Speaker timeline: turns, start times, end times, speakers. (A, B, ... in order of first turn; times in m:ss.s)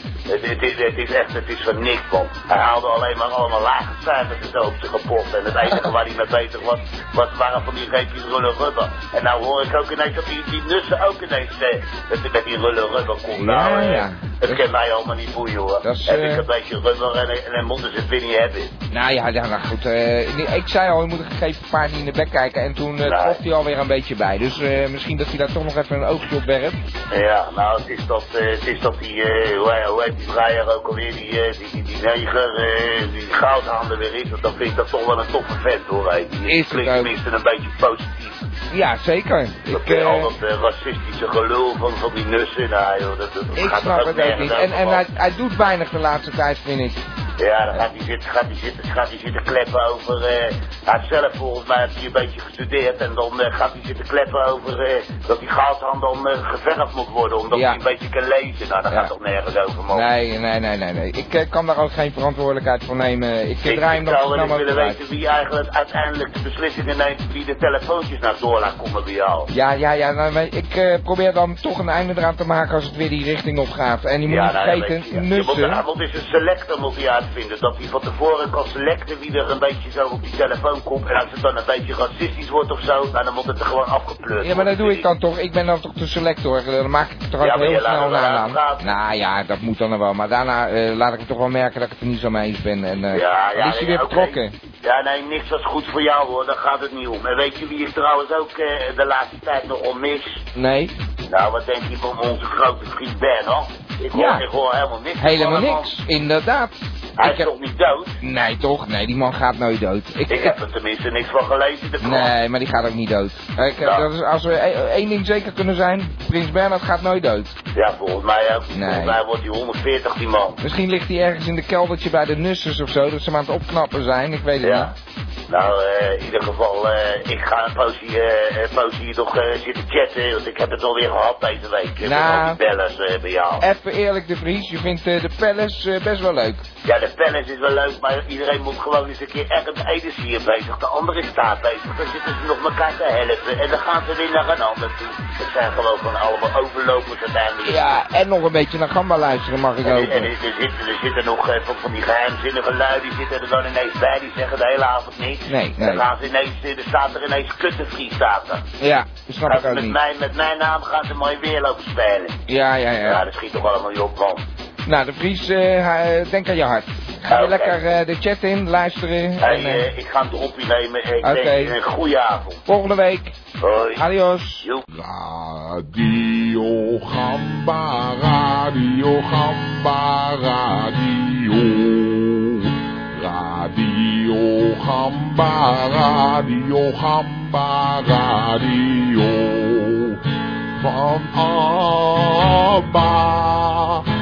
0:00.3-0:18.7 A
0:13.4-0:14.7 B
0:15.8-0:16.4 B
0:18.9-0:26.8 B
0:23.0-0:23.4 A
0:27.1-0:38.4 A
0:36.4-0:37.2 B
0:38.7-0:40.3 B
0:39.7-0:45.0 A
0:43.5-0:47.0 B
0:47.4-1:00.0 A
0:57.5-0:57.8 B
0:59.9-1:05.0 B
1:03.6-1:09.5 A
1:09.5-1:15.8 B
1:14.3-1:25.1 A
1:24.4-1:34.6 B
1:27.4-1:28.9 A
1:33.1-1:40.4 A
1:40.6-1:41.0 B
1:41.3-1:45.9 A
1:44.1-1:44.5 B
1:45.2-1:47.5 B
1:47.2-1:48.2 A
1:48.2-1:50.6 B
1:50.3-1:52.3 A
1:52.0-1:57.6 B
1:57.8-2:00.6 A
1:58.7-1:59.2 B
2:00.6-2:04.9 B
2:04.6-2:04.9 A
2:05.5-2:13.6 A
2:12.0-2:12.6 B
2:13.6-2:16.7 B
2:16.8-2:27.8 A
2:27.6-2:30.3 B
2:29.8-2:38.6 A
2:35.5-2:36.0 B
2:38.8-2:40.0 B
2:39.5-2:42.4 A
2:42.5-2:43.3 B
2:43.0-2:44.4 A
2:44.8-2:49.9 B
2:47.3-2:47.8 A
2:49.4-2:52.6 A
2:51.2-2:51.8 B
2:52.7-2:53.4 B
2:53.6-2:54.0 A
2:53.9-2:54.6 B
2:54.9-3:10.2 C
3:10.8-3:14.0 C